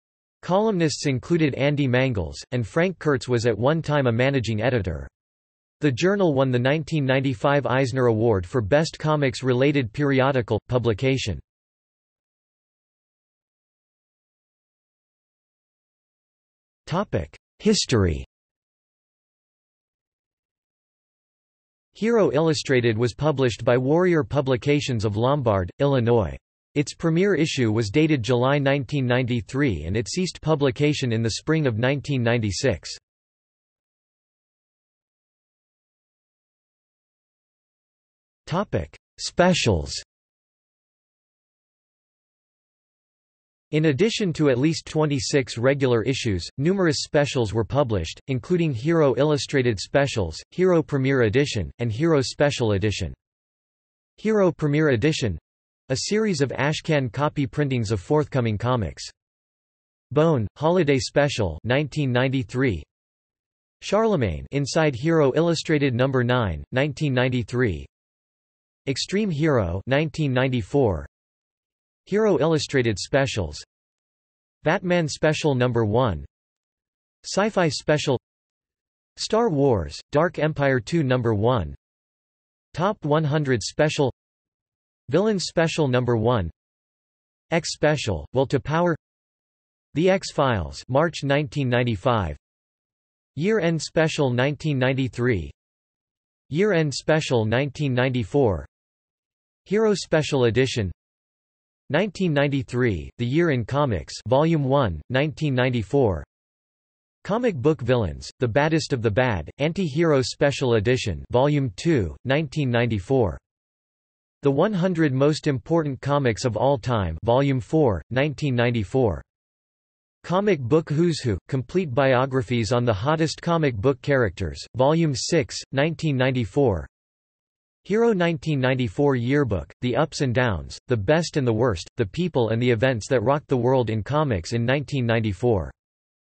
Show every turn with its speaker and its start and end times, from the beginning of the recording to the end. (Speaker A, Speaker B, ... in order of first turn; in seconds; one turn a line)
Speaker A: 0.4-5.1
Speaker A: 5.8-11.4
Speaker A: 16.9-18.3
Speaker A: 21.9-33.0
Speaker A: 38.5-40.0
Speaker A: 43.7-53.1
Speaker A: 54.2-59.1
Speaker A: 60.1-62.9
Speaker A: 63.8-67.9
Speaker A: 68.9-71.1
Speaker A: 72.1-73.7
Speaker A: 74.6-76.3
Speaker A: 77.2-78.2
Speaker A: 79.2-81.8
Speaker A: 82.7-84.2
Speaker A: 85.1-86.5
Speaker A: 87.5-89.0
Speaker A: 89.9-92.4
Speaker A: 93.4-95.5
Speaker A: 96.5-98.7
Speaker A: 99.7-101.0
Speaker A: 101.9-106.3
Speaker A: 107.2-113.4
Speaker A: 114.4-119.2
Speaker A: 120.2-126.9
Speaker A: 127.8-135.7